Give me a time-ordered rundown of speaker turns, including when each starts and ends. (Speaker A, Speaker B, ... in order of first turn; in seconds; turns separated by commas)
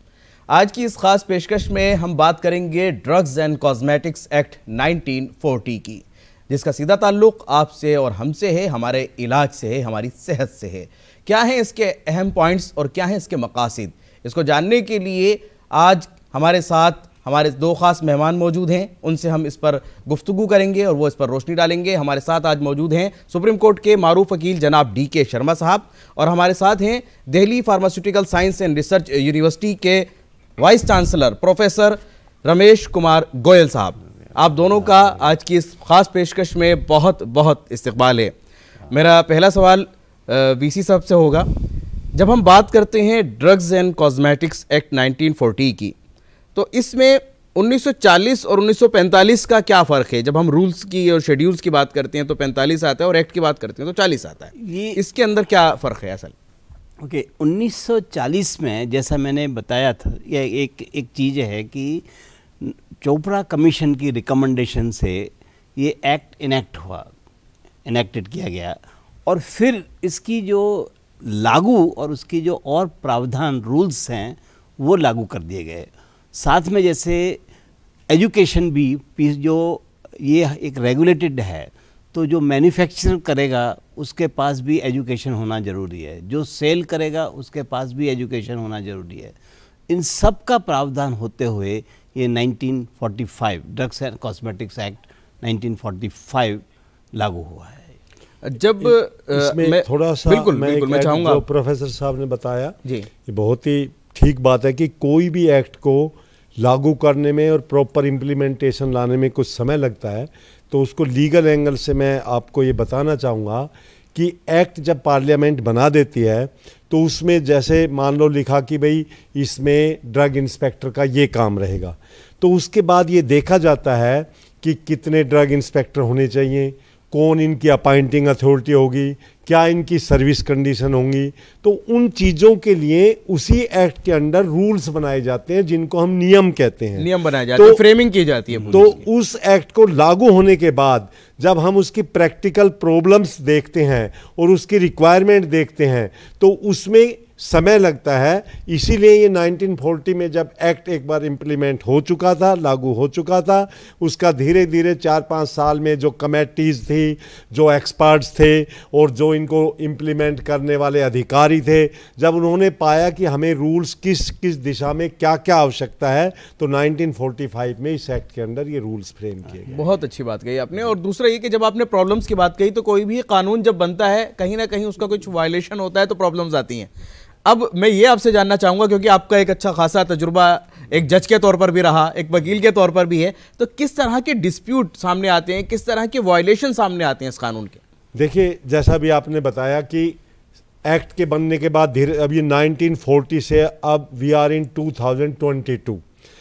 Speaker A: 0.5-30.1, Speaker A: 30.6-38.3, Speaker A: 38.9-41.5, Speaker A: 42.1-46.0, Speaker A: 46.5-56.3, Speaker B: 54.6-55.0, Speaker B: 57.0-62.0, Speaker B: 62.6-67.1, Speaker B: 67.9-77.4, Speaker B: 78.1-89.3, Speaker B: 89.9-96.6, Speaker B: 97.2-97.9, Speaker A: 98.4-101.4, Speaker C: 98.8-137.8, Speaker A: 137.0-139.0, Speaker C: 138.7-169.8, Speaker A: 169.7-176.9, Speaker A: 177.4-187.8, Speaker C: 188.2-190.2, Speaker C: 190.8-196.0